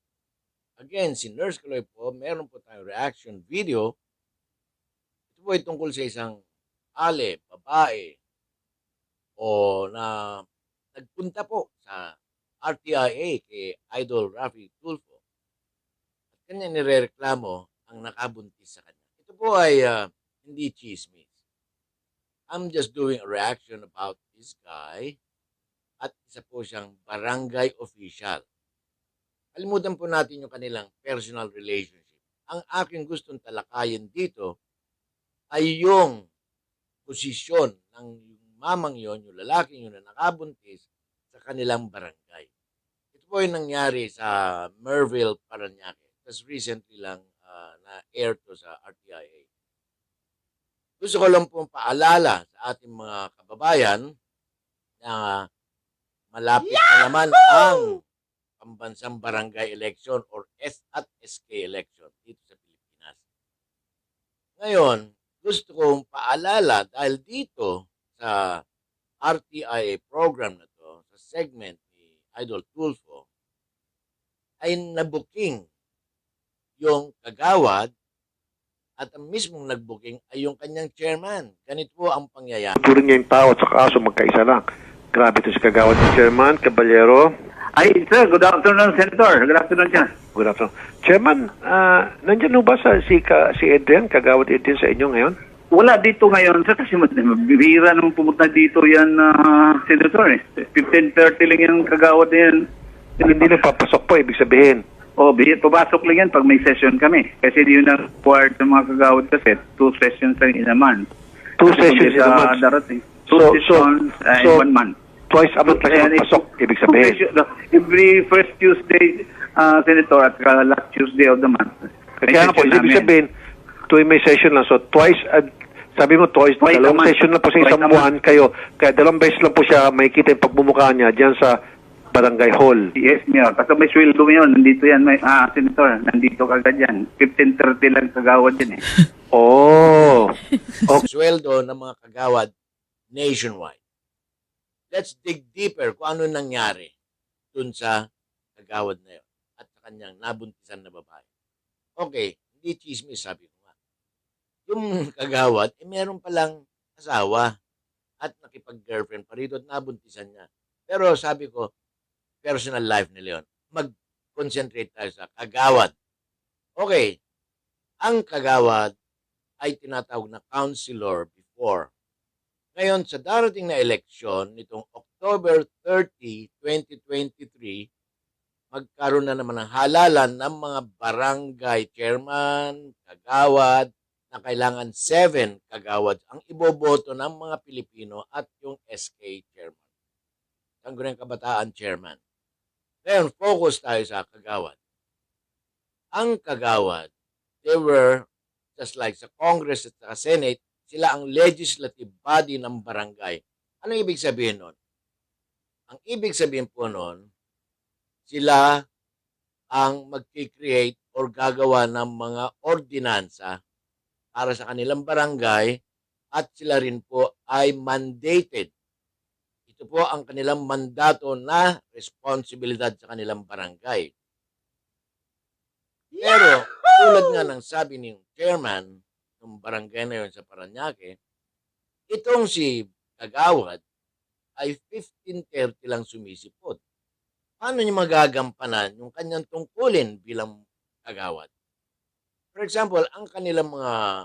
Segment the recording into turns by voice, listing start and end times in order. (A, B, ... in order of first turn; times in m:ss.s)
0:00.8-0:03.9 A
0:05.3-0:06.4 A
0:07.0-0:08.2 A
0:09.4-0:10.4 A
0:11.0-0:15.2 A
0:16.4-0:21.2 A
0:22.5-0:25.2 A
0:26.0-0:28.4 A
0:29.5-0:34.5 A
0:35.5-0:36.2 A
0:37.0-0:42.5 A
0:43.1-0:49.4 A
0:51.0-0:54.0 A
0:55.0-0:55.4 A
0:56.3-0:58.0 A
0:58.6-1:03.2 A
1:04.6-1:08.6 A
1:09.2-1:13.2 A
1:14.6-1:15.6 A
1:16.8-1:17.9 A
1:19.0-1:22.8 A
1:22.8-1:24.6 B
1:25.1-1:27.3 B
1:27.8-1:30.1 C
1:30.3-1:35.4 B
1:35.7-1:42.6 C
1:43.2-1:43.6 C
1:43.2-1:44.8 B
1:45.2-1:51.1 C
1:51.6-1:52.6 B
1:51.7-1:55.0 C
1:53.3-1:54.7 B
1:55.3-1:57.2 B
1:55.6-2:03.1 C
2:02.3-2:03.3 B
2:03.9-2:11.6 B
2:06.6-2:08.1 C
2:12.1-2:12.9 B
2:13.0-2:18.8 C
2:19.3-2:20.3 B
2:21.0-2:22.5 A
2:23.1-2:23.8 A
2:24.9-2:26.9 A
2:27.5-2:27.9 A
2:28.6-2:31.2 A
2:32.0-2:33.7 A
2:34.7-2:37.5 A
2:38.2-2:41.7 A
2:42.4-2:45.9 A
2:46.8-2:47.2 A
2:48.0-2:48.9 A
2:49.6-2:51.9 A
2:52.8-2:57.8 A
2:58.7-3:09.8 A
3:10.8-3:12.2 A
3:13.0-3:14.8 A
3:16.1-3:17.1 A
3:17.6-3:24.7 A
3:25.9-3:27.2 A
3:28.3-3:28.6 A
3:29.8-3:33.5 A
3:34.3-3:35.7 A
3:36.4-3:38.7 A
3:39.7-3:44.1 A
3:46.2-3:51.1 A
3:52.1-3:53.8 A
3:54.6-3:56.8 A
3:57.6-4:00.5 A
4:01.0-4:01.5 A
4:02.5-4:03.9 A